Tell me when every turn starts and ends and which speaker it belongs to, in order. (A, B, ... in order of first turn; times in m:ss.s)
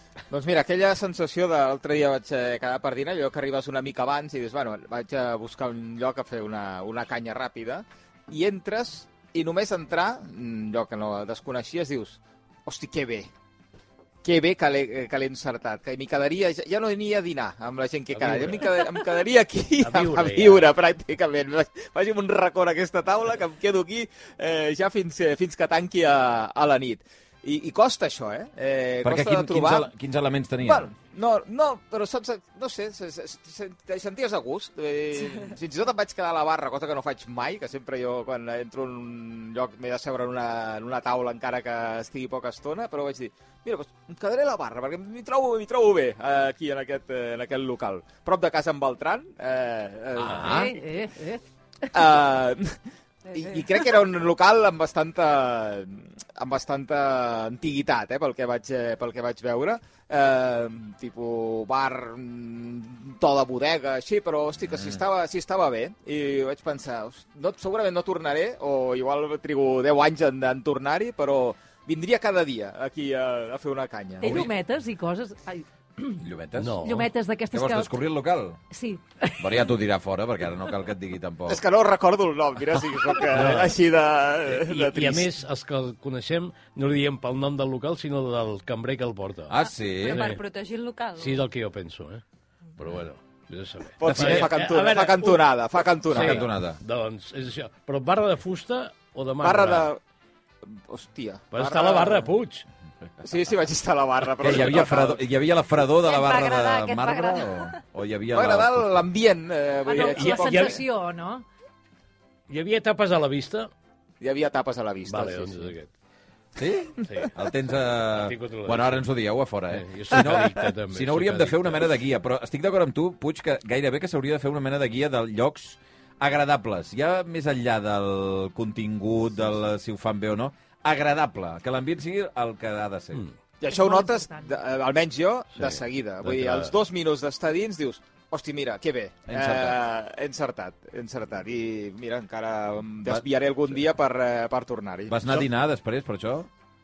0:00.3-0:13.3 A
0:14.2-0:29.9 A
0:18.1-0:18.9 B
0:19.8-0:20.7 B
0:29.0-0:30.9 C
0:30.6-0:50.7 A
0:50.2-0:50.7 C
0:50.3-0:51.4 D
0:51.9-0:52.8 A
0:53.3-1:14.5 A
1:04.6-1:05.0 C
1:14.2-1:16.2 D
1:16.2-1:16.8 C
1:16.6-1:17.1 B
1:16.8-1:18.0 D
1:17.5-1:18.6 C
1:18.7-1:19.6 D
1:19.4-1:21.6 C
1:21.5-1:25.3 A
1:23.3-1:23.8 B
1:24.5-1:29.5 B
1:29.5-1:30.3 C
1:29.6-1:31.4 E
1:30.0-1:30.4 B
1:31.2-1:32.2 B
1:32.8-1:35.5 B
1:34.0-1:36.5 A
1:36.1-1:39.9 B
1:36.1-1:36.8 C
1:39.4-1:40.0 A
1:40.7-1:42.3 A
1:41.5-1:42.6 B
1:43.2-1:45.2 A
1:44.4-1:49.1 C
1:46.0-1:47.8 E
1:48.3-1:50.8 A
1:49.9-1:51.4 D
1:49.9-1:50.8 B
1:52.5-1:53.7 B
1:54.2-1:55.7 A
1:55.1-1:55.9 B
1:56.6-2:13.2 C
1:57.0-1:57.3 B
1:58.0-1:59.0 B
1:59.7-2:01.9 B
2:13.6-2:25.4 A
2:13.6-2:14.5 D
2:15.5-2:16.7 B
2:19.3-2:19.8 C
2:25.1-2:26.5 C